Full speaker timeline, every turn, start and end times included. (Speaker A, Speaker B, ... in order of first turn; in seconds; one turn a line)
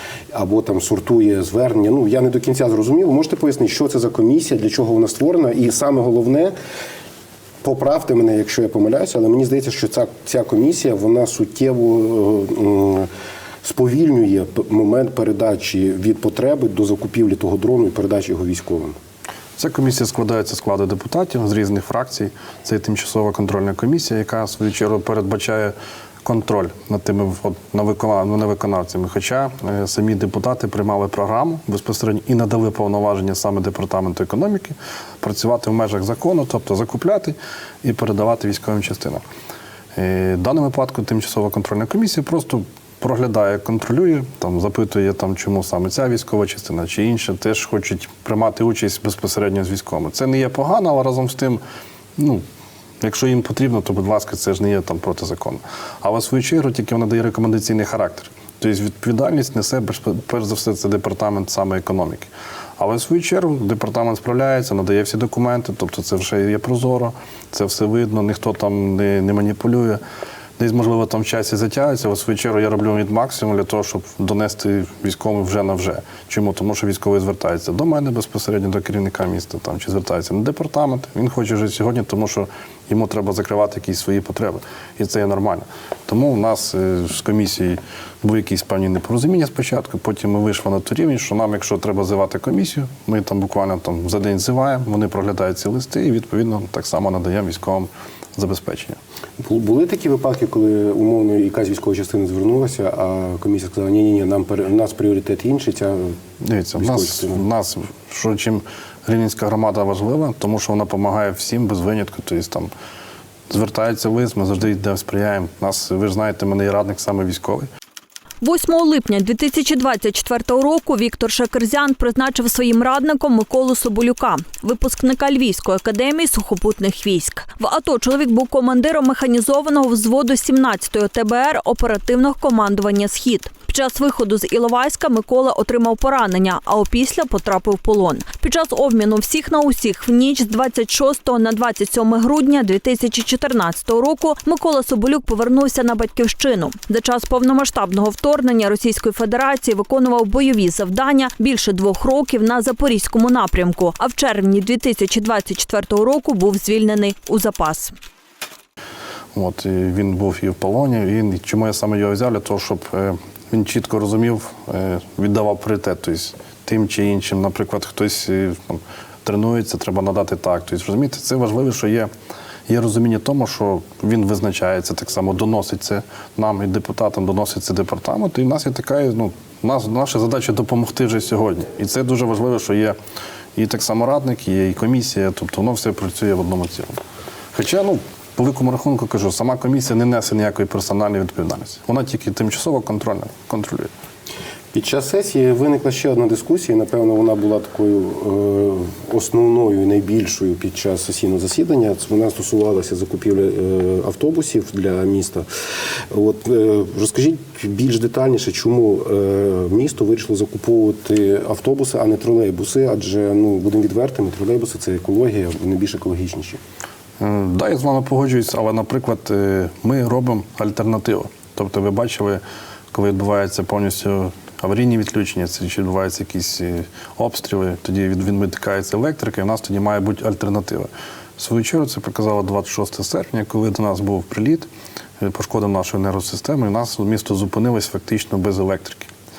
Speaker A: 0.3-6.5
Speaker A: 7.6-13.1
Speaker A: 13.6-19.0
Speaker B: 19.6-39.2
Speaker B: 40.0-51.6
Speaker B: 52.2-52.4
Speaker B: 53.0-70.0
Speaker B: 70.6-99.0
Speaker A: 99.4-106.2
Speaker B: 106.4-112.7
Speaker A: 106.8-107.4
Speaker B: 113.5-117.7
Speaker C: 118.4-157.9
Speaker B: 159.3-172.1
Speaker B: 172.7-183.0
Speaker B: 183.6-187.0
Speaker B: 187.5-193.9
Speaker A: 194.7-205.5
Speaker A: 206.1-216.6
Speaker B: 217.2-234.7
Speaker B: 235.2-239.1